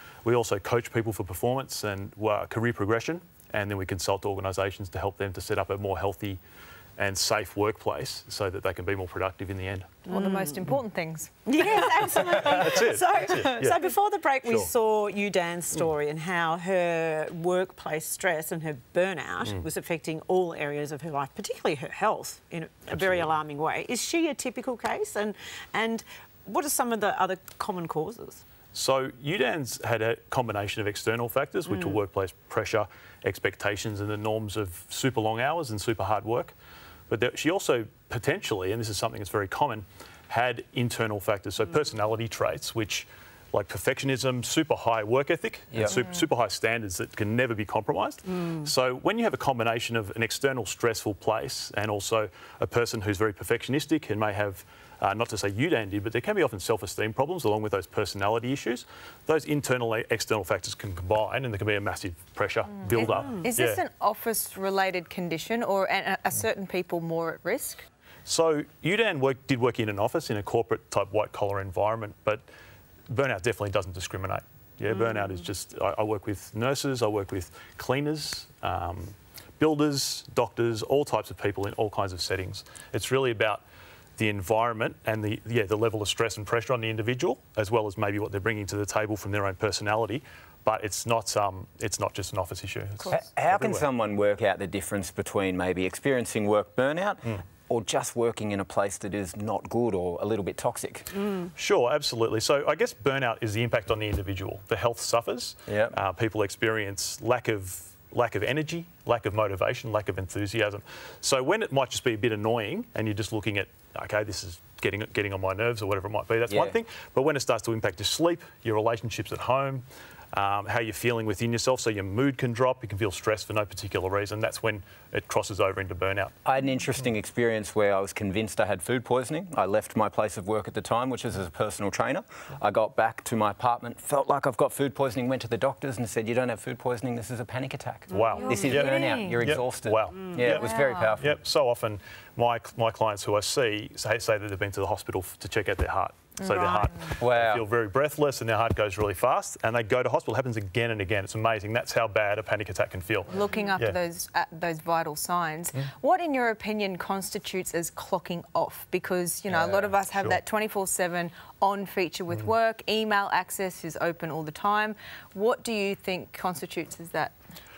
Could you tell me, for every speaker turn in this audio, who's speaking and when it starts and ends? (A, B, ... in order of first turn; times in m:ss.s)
0:00.2-0:06.4 A
0:07.0-0:10.0 A
0:10.1-0:12.7 B
0:10.1-0:10.6 C
0:11.4-0:28.4 C
0:11.6-0:13.8 A
0:14.4-0:14.7 A
0:22.9-0:23.3 A
0:28.7-0:36.5 A
0:37.1-1:03.8 A
1:02.8-1:07.8 B
1:03.0-1:03.4 C
1:08.2-1:12.4 A
1:13.1-1:23.6 A
1:24.2-1:33.8 A
1:33.1-1:41.1 D
1:41.6-2:06.3 A
1:45.7-1:45.9 D
1:56.5-1:56.7 D
2:06.4-2:21.4 D
2:18.1-2:34.0 A
2:18.2-2:19.4 B
2:20.5-2:21.2 B
2:26.4-2:26.9 B
2:27.2-2:27.6 D
2:33.3-2:47.3 B
2:39.5-2:40.4 A